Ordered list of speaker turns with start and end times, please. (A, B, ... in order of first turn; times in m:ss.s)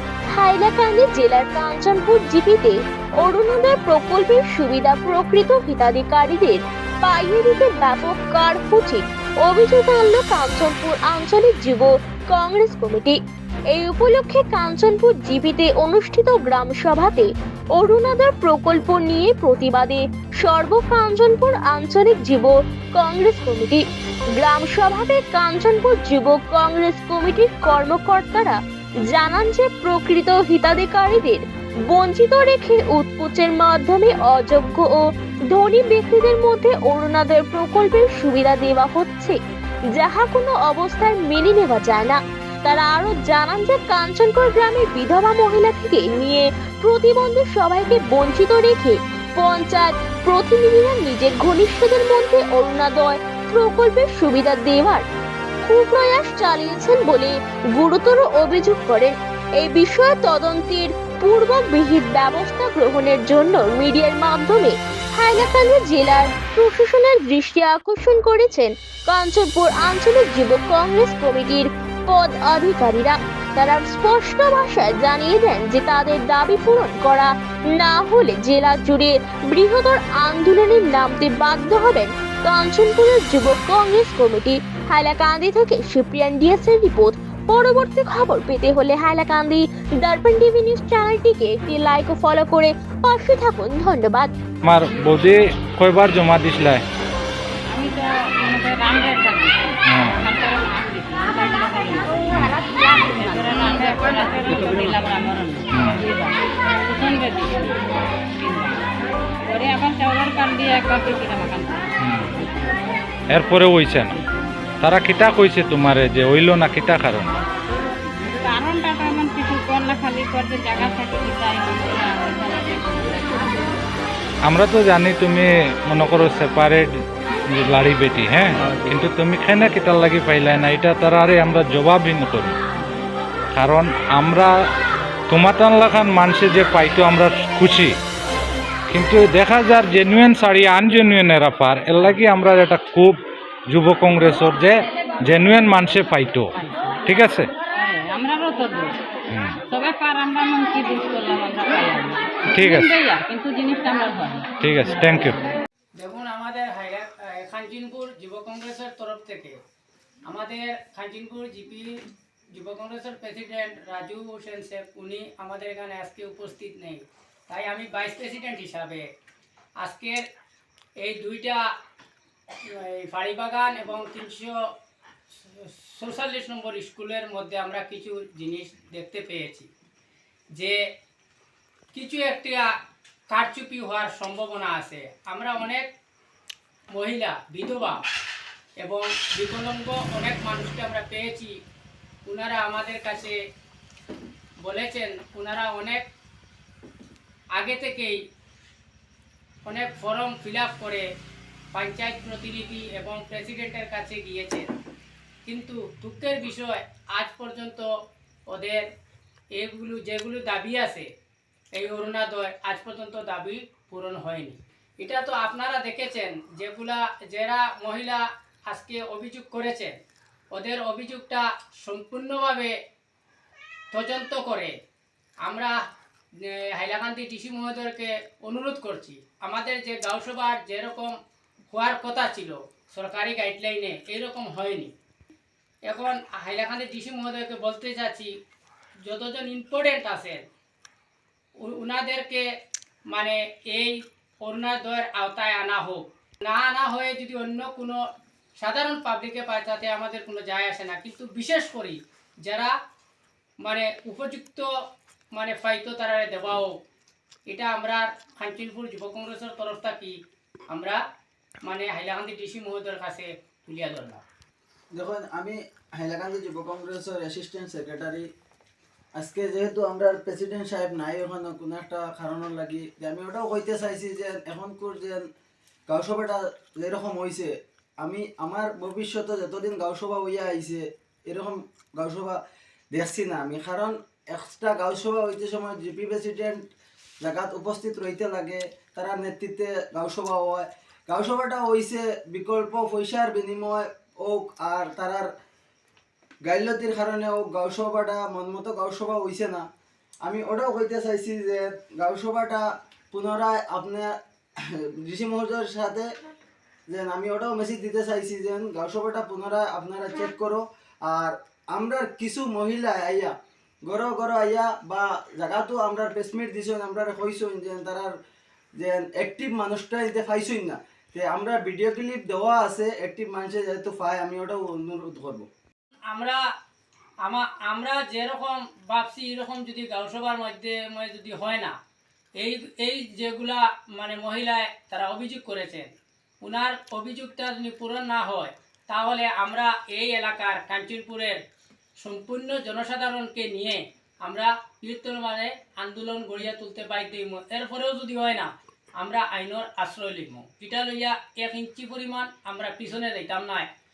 0:00.3-0:13.2 A
0:13.7-0:23.8 A
0:24.3-0:28.6 A
0:29.1-0:39.4 A
0:39.9-0:55.0 A
0:55.6-1:34.3 A
1:34.6-1:36.8 B
1:37.7-1:47.8 C
1:39.9-1:40.2 B
1:45.7-1:46.0 B
1:48.4-1:48.9 C
1:49.4-1:52.8 C
1:52.0-1:52.3 B
1:53.3-1:54.2 B
1:54.1-1:54.5 C
1:54.8-1:57.3 B
1:58.4-2:03.8 C
2:04.4-2:06.9 B
2:07.5-2:12.6 B
2:13.5-2:14.5 B
2:15.3-2:17.9 B
2:18.9-2:26.5 B
2:26.6-2:26.9 C
2:27.0-2:27.5 B
2:27.7-2:29.0 C
2:29.3-2:29.6 B
2:29.7-2:35.0 C
2:32.5-2:32.9 B
2:34.6-2:35.4 B
2:36.0-2:39.6 D
2:40.3-2:49.1 D
2:49.8-2:50.2 D
2:51.0-2:51.6 D
2:52.6-2:54.6 D
2:55.4-2:59.7 D
3:00.5-3:00.8 D
3:01.9-3:02.7 D
3:03.3-3:05.9 D
3:06.9-3:08.0 D
3:08.8-3:11.5 D
3:12.2-3:13.4 D
3:14.6-3:16.0 D
3:17.5-3:18.2 D
3:19.6-3:21.1 D
3:21.7-3:24.7 D
3:25.4-3:27.9 D
3:28.5-3:28.8 D
3:29.5-3:31.1 D
3:31.7-3:40.0 D
3:40.5-3:42.7 D
3:43.9-3:44.7 D
3:45.4-3:45.8 D
3:46.4-3:51.1 D
3:51.7-3:54.9 D
3:55.8-3:58.3 D
3:59.0-4:00.4 D
4:01.6-4:02.4 D
4:03.1-4:08.0 D
4:08.6-4:12.7 D
4:13.6-4:14.7 D
4:15.3-4:16.7 D
4:17.5-4:20.2 D
4:20.7-4:21.0 D
4:21.6-4:24.2 D
4:25.0-4:28.3 E
4:29.2-4:35.2 E
4:35.9-4:42.4 E
4:42.9-4:46.7 E
4:47.2-4:55.3 E
4:56.4-4:59.6 E
5:00.2-5:04.1 E
5:04.7-5:06.0 E
5:06.9-5:13.3 E
5:13.8-5:18.1 E
5:18.8-5:25.5 E
5:26.1-5:26.4 D
5:27.2-5:31.8 D
5:32.4-5:35.9 D
5:36.4-5:41.4 D
5:42.0-5:53.7 D